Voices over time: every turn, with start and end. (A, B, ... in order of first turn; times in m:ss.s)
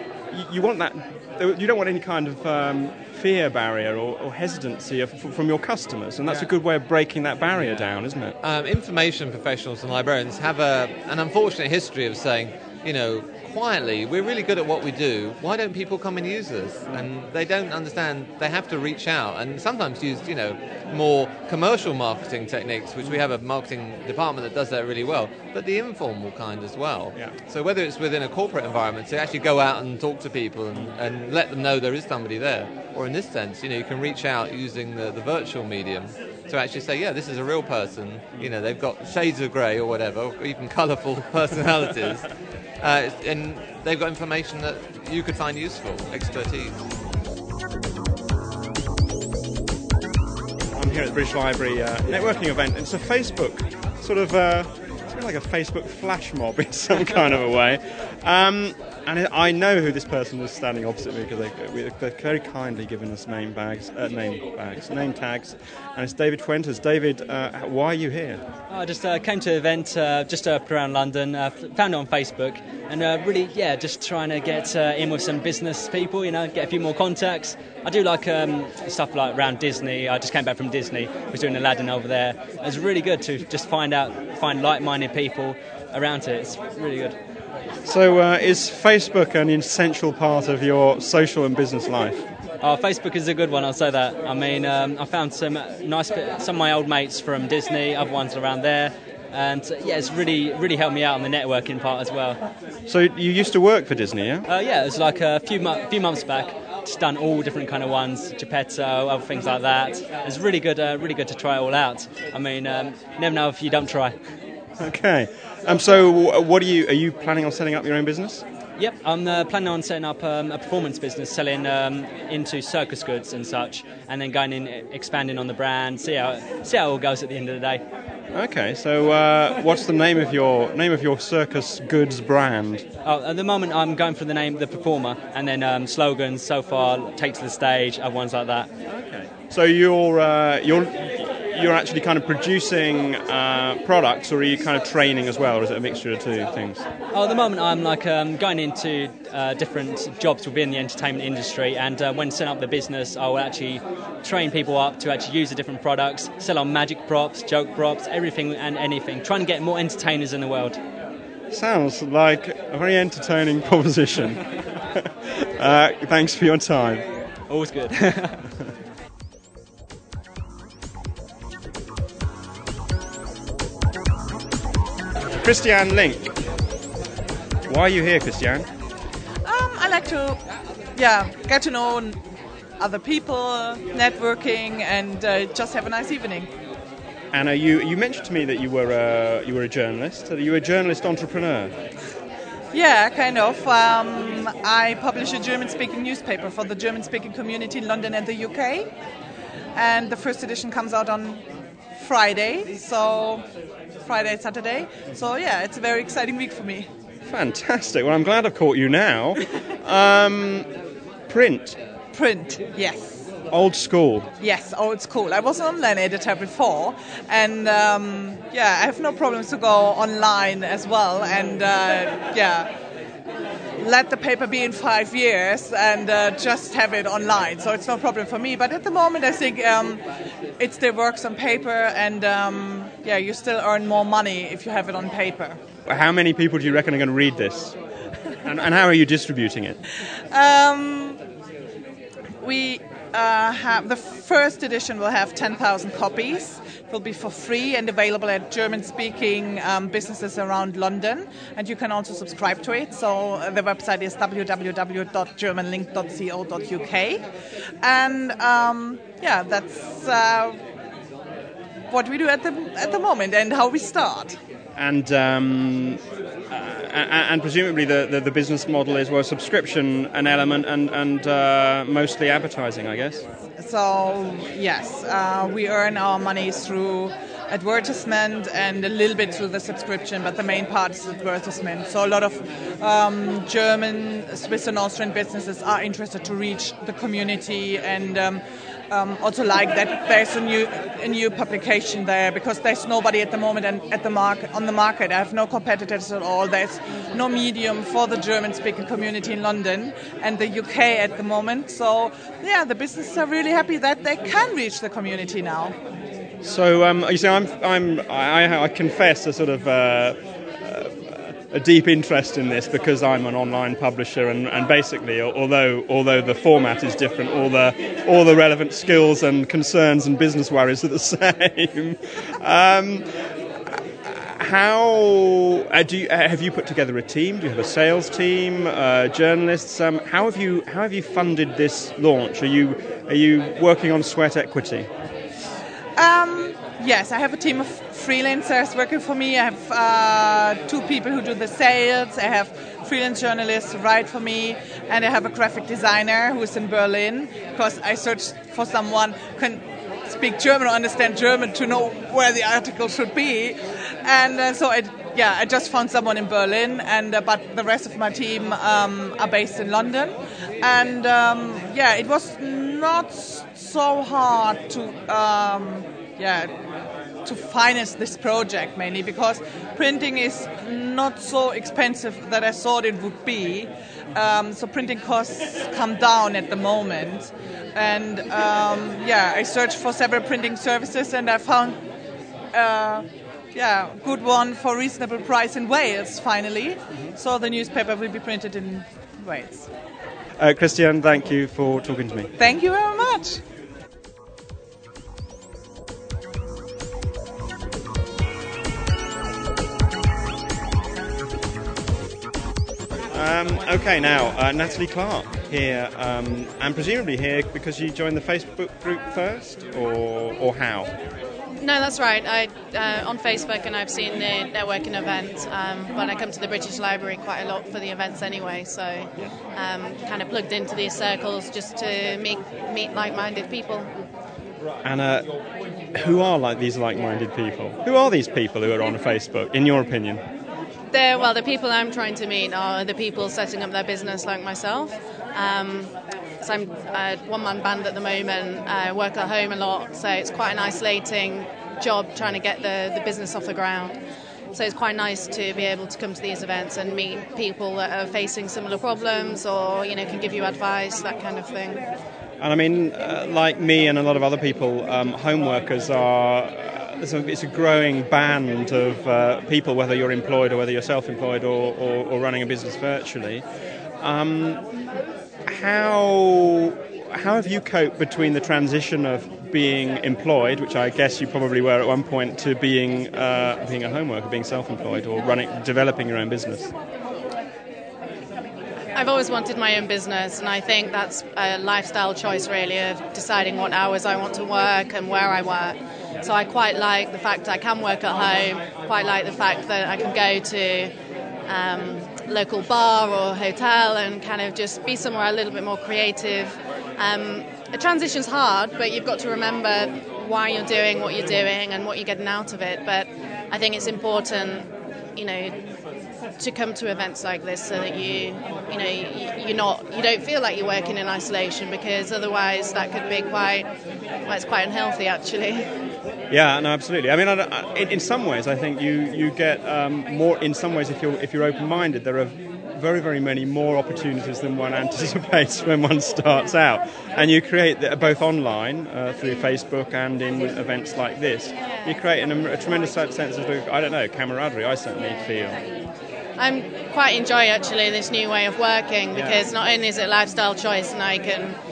0:00.3-0:08.4 A
0:08.4-0:46.8 B
0:50.8-1:08.4 A
1:08.7-1:27.2 C
1:27.8-1:32.2 A
1:32.6-1:42.4 C
1:42.9-1:44.5 A
1:44.5-1:54.2 C
1:54.8-1:58.4 A
1:58.8-2:07.8 C
2:08.3-2:12.9 A
2:13.0-2:18.7 C
2:18.9-2:26.8 A
2:27.1-2:40.8 C
2:41.5-2:47.1 A
2:47.5-2:48.5 C
2:55.4-2:56.3 A
2:57.7-2:58.7 A
2:59.4-3:00.4 D
3:01.0-3:02.2 D
3:02.8-3:06.5 D
3:07.3-3:11.8 A
3:12.7-3:18.9 D
3:19.8-3:21.4 D
3:22.0-3:23.4 D
3:24.0-3:26.9 D
3:27.2-3:30.7 A
3:31.3-3:31.8 A
3:32.1-3:33.2 D
3:33.5-3:34.3 A
3:34.4-3:42.7 D
3:43.8-3:50.0 D
3:50.6-3:55.6 D
3:55.9-3:57.8 A
3:58.4-3:59.8 A
4:00.3-4:01.2 D
4:02.4-4:17.3 D
4:17.8-4:20.6 D
4:21.9-4:24.4 D
4:24.8-4:33.2 A
4:33.6-5:05.8 D
5:06.4-5:23.1 A
5:23.7-5:34.9 A
5:36.0-6:06.5 D
6:07.2-6:21.8 D
6:22.5-6:29.7 D
6:30.4-6:32.3 A
6:32.4-6:33.4 D
6:43.1-6:50.9 A
6:51.6-7:03.9 E
7:04.8-7:05.3 A
7:05.9-7:10.2 A
7:10.9-7:24.0 E
7:24.5-7:31.8 E
7:32.4-7:43.4 A
7:44.0-7:44.6 A
7:45.5-7:56.7 A
7:58.9-8:10.9 E
8:11.5-8:25.6 E
8:26.4-8:33.7 E
8:34.3-8:35.7 E
8:36.3-8:55.6 A
8:56.4-9:01.6 E
8:59.1-8:59.5 A